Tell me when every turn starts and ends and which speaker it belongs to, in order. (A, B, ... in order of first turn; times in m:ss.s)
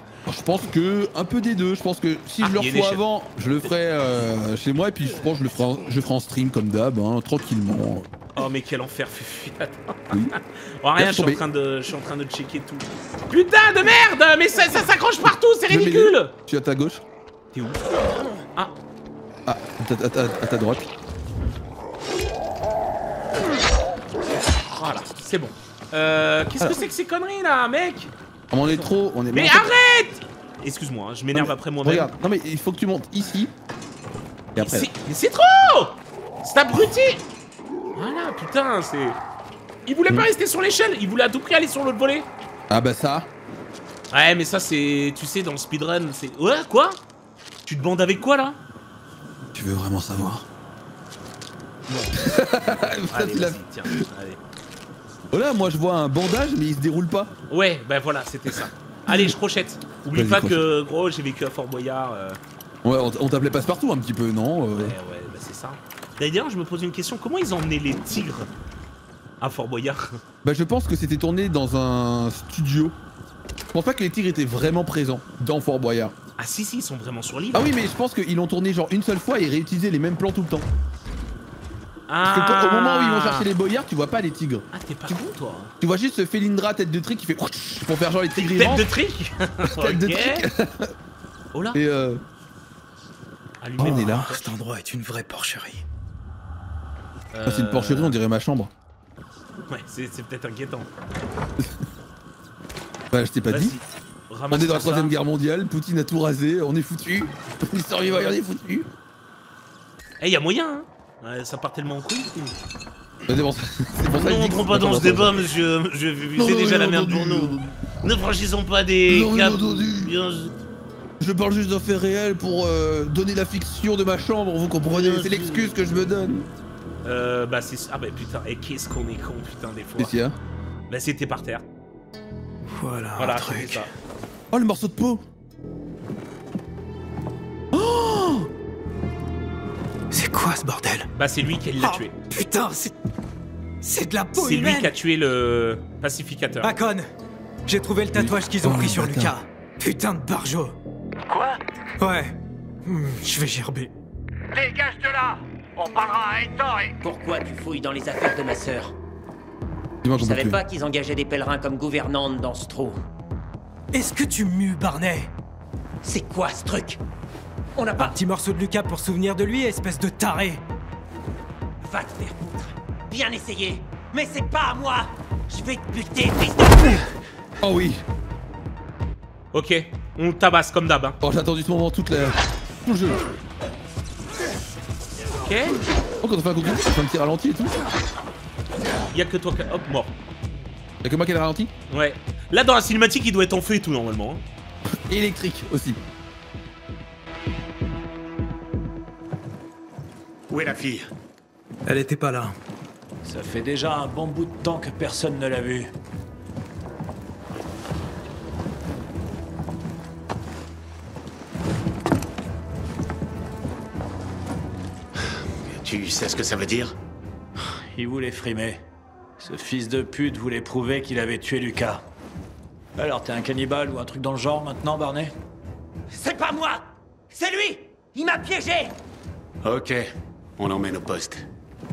0:00.3-0:08.1 A
0:02.4-0:03.0 B
0:08.4-0:16.3 B
0:11.0-0:11.4 A
0:15.7-0:17.0 A
0:17.5-0:18.8 B
0:19.5-0:20.9 A
0:24.7-0:28.1 B
0:28.5-0:29.7 A
0:28.7-0:32.1 B
0:31.3-0:33.5 A
0:34.5-0:34.9 A
0:34.6-0:37.2 B
0:38.0-0:39.2 B
0:39.9-0:42.3 B
0:42.7-0:43.3 A
0:44.1-0:47.0 B
0:47.6-0:48.6 B
0:49.5-0:50.5 A
0:52.1-0:54.0 A
0:53.1-0:54.4 B
0:55.3-0:57.3 A
0:57.5-1:02.4 B
0:59.1-0:59.3 A
1:00.1-1:00.6 A
1:02.8-1:05.0 A
1:04.8-1:08.5 B
1:09.4-1:10.2 B
1:10.4-1:13.0 A
1:13.7-1:16.1 A
1:16.4-1:17.7 B
1:17.5-1:20.7 A
1:22.1-1:23.5 B
1:22.2-1:24.7 A
1:24.7-1:25.7 B
1:25.8-1:28.9 A
1:28.4-1:30.5 B
1:29.6-1:30.9 A
1:31.5-1:31.8 B
1:31.7-1:32.2 A
1:33.6-1:34.5 B
1:33.8-1:34.3 A
1:33.8-1:35.8 C
1:37.3-1:38.2 B
1:37.4-1:38.7 A
1:39.7-1:40.9 B
1:41.6-1:41.8 A
1:43.1-1:43.8 A
1:43.5-1:45.2 B
1:44.5-1:48.9 A
1:50.2-1:52.6 B
1:53.3-1:55.5 A
1:54.1-2:00.5 B
1:56.4-1:57.7 A
1:59.1-2:00.1 A
2:01.2-2:06.5 A
2:05.0-2:05.6 B
2:07.0-2:10.2 B
2:10.0-2:10.4 A
2:10.9-2:11.6 B
2:12.7-2:13.9 C
2:13.2-2:13.9 B
2:14.5-2:15.2 A
2:17.7-2:18.5 A
2:20.1-2:21.1 C
2:21.1-2:22.2 B
2:21.8-2:22.9 C
2:23.8-2:24.9 C
2:24.3-2:26.7 B
2:26.6-2:27.1 C
2:27.7-2:30.8 C
2:28.1-2:29.4 A
2:32.0-2:33.9 C
2:34.7-2:35.0 D
2:37.0-2:39.0 D
2:40.0-2:40.6 A
2:40.2-2:43.0 D
2:43.9-2:45.3 C
2:46.0-2:47.0 D
2:47.8-2:48.2 D
2:48.0-2:50.6 C
2:51.8-2:57.1 D
2:57.6-2:58.0 A
2:59.5-3:01.2 B
3:01.2-3:03.2 A
3:05.4-3:05.8 B
3:06.2-3:07.8 A
3:09.1-3:10.2 B
3:11.0-3:11.7 A
3:11.9-3:14.4 B
3:15.1-3:16.0 A
3:20.5-3:21.1 E
3:21.9-3:22.5 C
3:23.2-3:25.9 F
3:35.3-3:37.0 E
3:37.6-3:38.8 F
3:39.4-3:42.0 F
3:43.0-3:45.3 F
3:46.1-3:49.0 D
3:49.6-3:50.1 E
3:50.6-3:51.4 E